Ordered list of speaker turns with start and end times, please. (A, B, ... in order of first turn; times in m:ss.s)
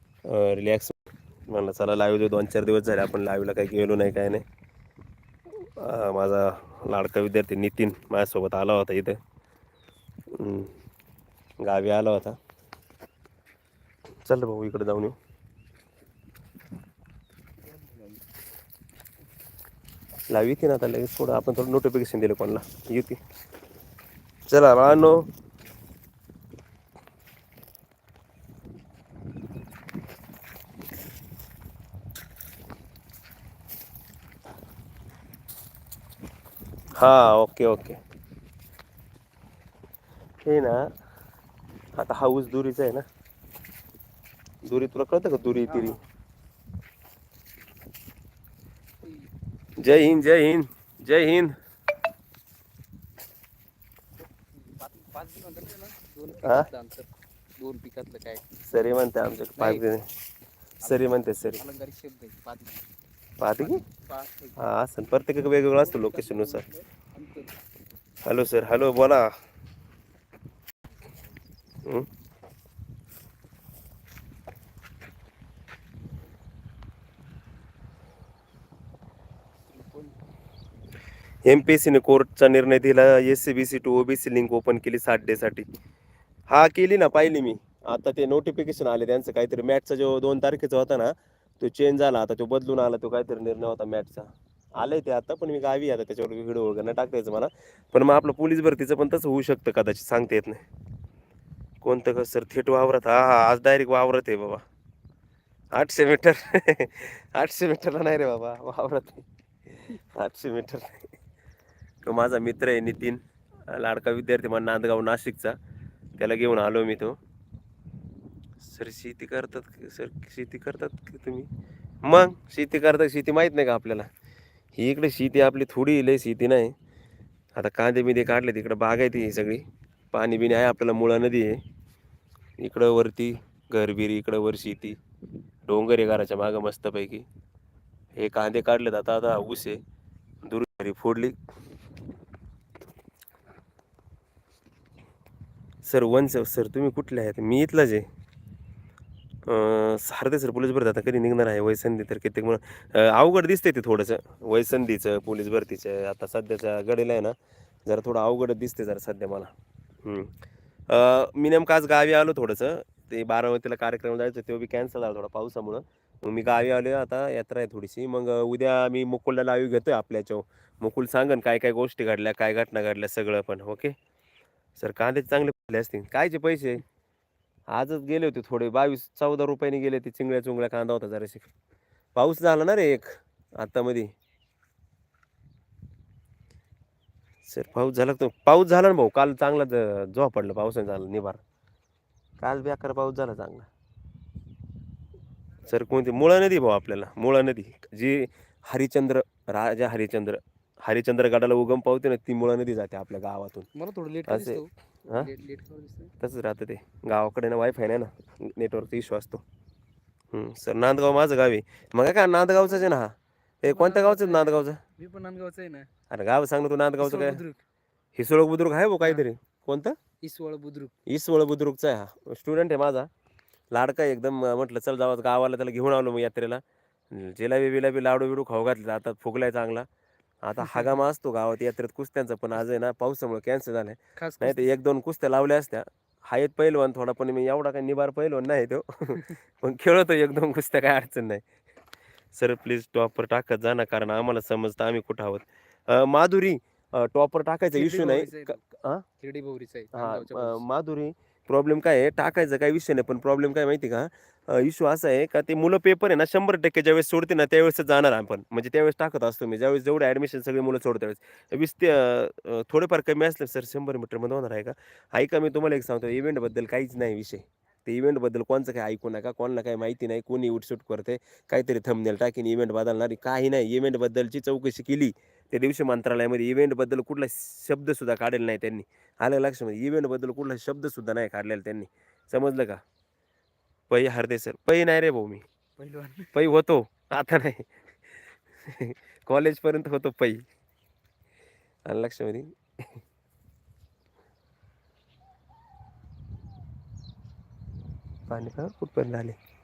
0:00.2-0:00.9 A
0:01.5-0:04.4 A
0:05.6-0:09.2 A
0:10.3-0:10.7 A
0:11.6-0:12.4 A
0:14.2-0:15.2 A
0:17.6-0:18.3 B
0:20.3-0:23.2 A
0:24.5-0:25.2 A
0:37.0-0:38.0 A
0:40.4-0:40.9 A
0:41.9-0:43.0 A
0:44.6-0:46.0 A
0:45.7-0:46.0 B
0:49.8-0:51.6 A
0:54.5-0:58.5 B
0:56.4-0:56.7 A
0:58.7-1:00.1 A
0:59.6-1:00.0 B
1:00.8-1:02.9 B
1:00.8-1:01.6 A
1:03.4-1:03.8 A
1:03.6-1:04.6 B
1:04.6-1:06.6 A
1:05.7-1:07.6 B
1:08.2-1:09.3 A
1:19.7-1:20.2 B
1:21.4-1:25.6 A
1:26.5-1:40.6 A
1:41.8-1:44.6 A
1:45.7-1:49.2 A
1:49.8-1:51.1 A
1:52.0-1:55.6 A
1:56.2-1:57.2 A
1:58.6-2:01.5 A
2:02.0-2:04.1 A
2:04.8-2:06.7 A
2:07.5-2:11.6 A
2:12.6-2:15.0 A
2:15.7-2:17.2 A
2:18.2-2:19.8 A
2:20.4-2:21.3 A
2:25.8-2:28.0 A
2:29.4-2:39.5 A
2:40.0-2:40.3 A
2:40.9-2:54.0 A
2:54.8-2:56.8 A
2:57.7-3:01.5 A
3:02.1-3:04.1 A
3:07.5-3:11.4 A
3:12.4-3:13.7 A
3:15.6-3:23.7 A
3:23.7-3:26.1 B
3:24.3-3:25.3 A
3:26.2-3:29.4 A
3:30.3-3:34.8 A
3:33.6-3:35.9 B
3:36.1-3:37.4 A
3:37.0-3:37.6 B
3:38.2-3:40.0 A
3:39.0-3:39.2 B
3:40.2-3:40.9 B
3:41.1-3:43.1 A
3:43.7-3:49.9 A
3:50.4-4:01.4 A
3:50.6-3:50.9 B
3:54.2-3:54.7 B
4:02.3-4:09.0 A
4:07.7-4:08.6 B
4:09.2-4:10.6 B
4:09.9-4:42.8 A
4:43.9-4:45.4 A
4:45.8-4:46.3 B
4:46.3-4:47.7 A
4:48.6-4:50.4 A
4:51.9-4:53.0 A
4:58.3-4:59.4 A